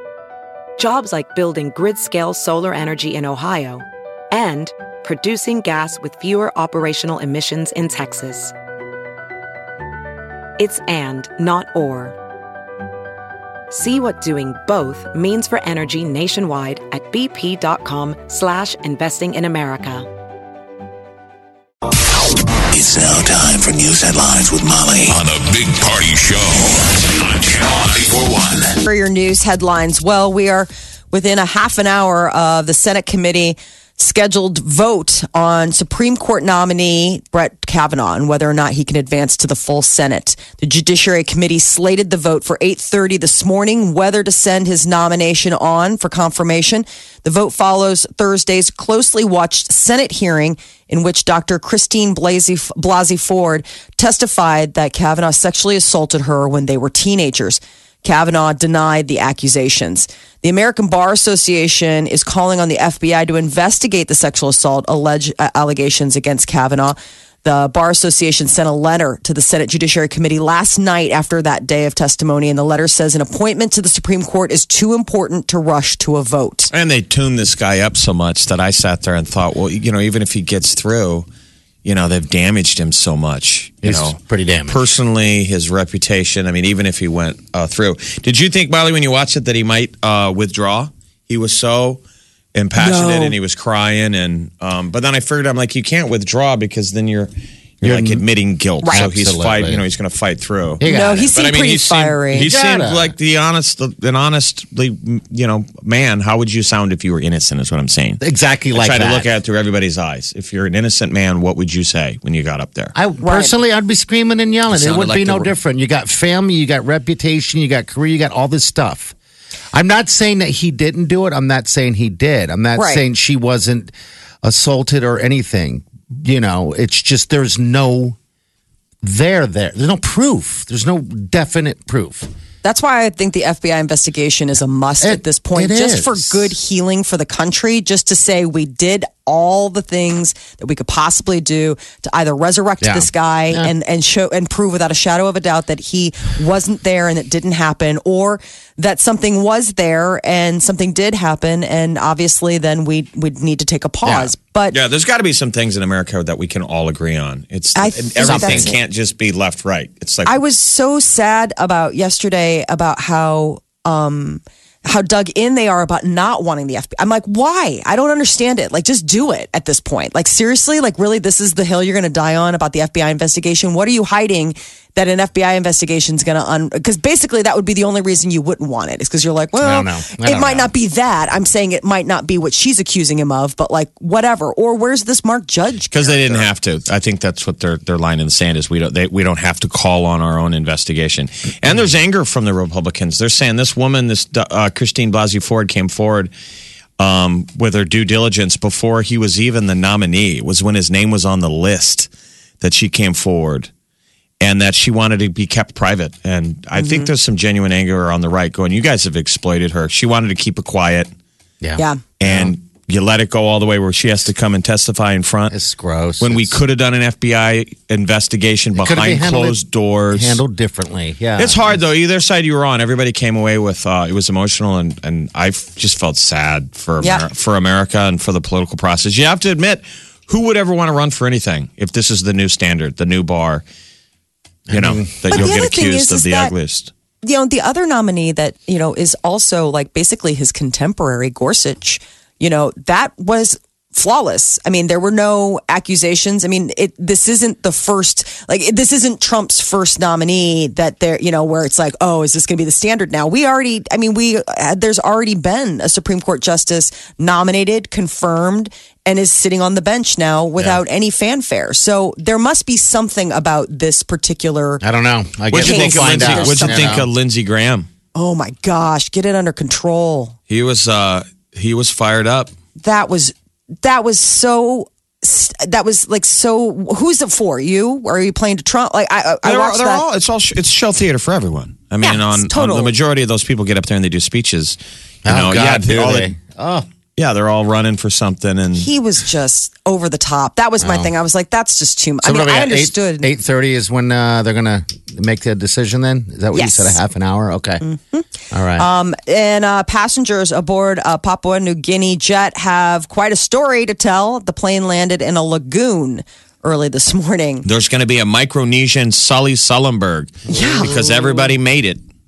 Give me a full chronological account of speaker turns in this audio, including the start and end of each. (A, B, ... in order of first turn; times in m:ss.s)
0:00.8-0:08.5 A
0:10.6-0:12.2 A
0:13.7-0:20.1 A
0:22.7-0:28.8 B
0:28.8-1:16.7 C
1:16.7-1:21.3 D
1:21.8-1:32.0 D
1:23.8-1:24.8 E
1:32.5-1:40.8 D
1:32.8-1:33.4 C
1:37.8-1:38.2 E
1:38.8-1:39.1 C
1:38.9-1:39.8 E
1:40.8-1:41.3 E
1:40.8-1:42.5 C
1:41.3-1:48.2 D
1:42.4-1:43.1 E
1:48.2-1:49.3 E
1:48.7-1:52.9 D
1:52.9-1:59.1 E
1:53.2-1:53.5 C
1:54.7-1:55.5 D
1:59.7-2:03.9 E
2:02.8-2:03.0 C
2:04.4-2:08.2 E
2:09.0-2:12.3 E
2:12.6-2:34.8 C
2:15.0-2:16.5 E
2:22.8-2:23.7 E
2:34.0-2:34.3 E
2:34.7-2:40.3 D
2:37.7-2:38.8 C
2:38.2-2:38.7 E
2:40.2-3:06.2 C
2:59.6-3:00.7 E
3:05.9-3:16.3 D
3:17.0-3:22.1 D
3:22.6-3:23.7 D
3:24.4-3:31.1 D
3:26.7-3:27.1 C
3:31.6-3:32.5 E
3:32.2-3:35.5 D
3:35.5-3:36.6 E
3:36.2-3:40.4 D
3:38.7-3:41.8 E
3:41.4-3:53.6 D
3:54.7-3:55.7 E
3:54.7-3:56.9 D
3:55.3-3:56.5 C
3:57.2-4:24.8 C
4:24.8-4:27.1 E
4:25.5-4:27.9 D
4:25.6-4:26.9 C
4:28.1-4:30.3 C
4:30.5-4:32.5 D
4:32.8-4:40.0 C
4:39.4-4:46.3 D
4:42.0-4:42.9 C
4:45.2-4:46.8 E
4:47.2-4:48.9 D
4:48.7-4:53.3 C
4:50.8-4:51.1 E
4:52.2-4:57.8 E
4:56.5-4:57.0 C
4:57.8-5:07.6 C
4:58.5-4:58.8 E
5:07.6-5:12.0 D
5:10.5-5:11.5 C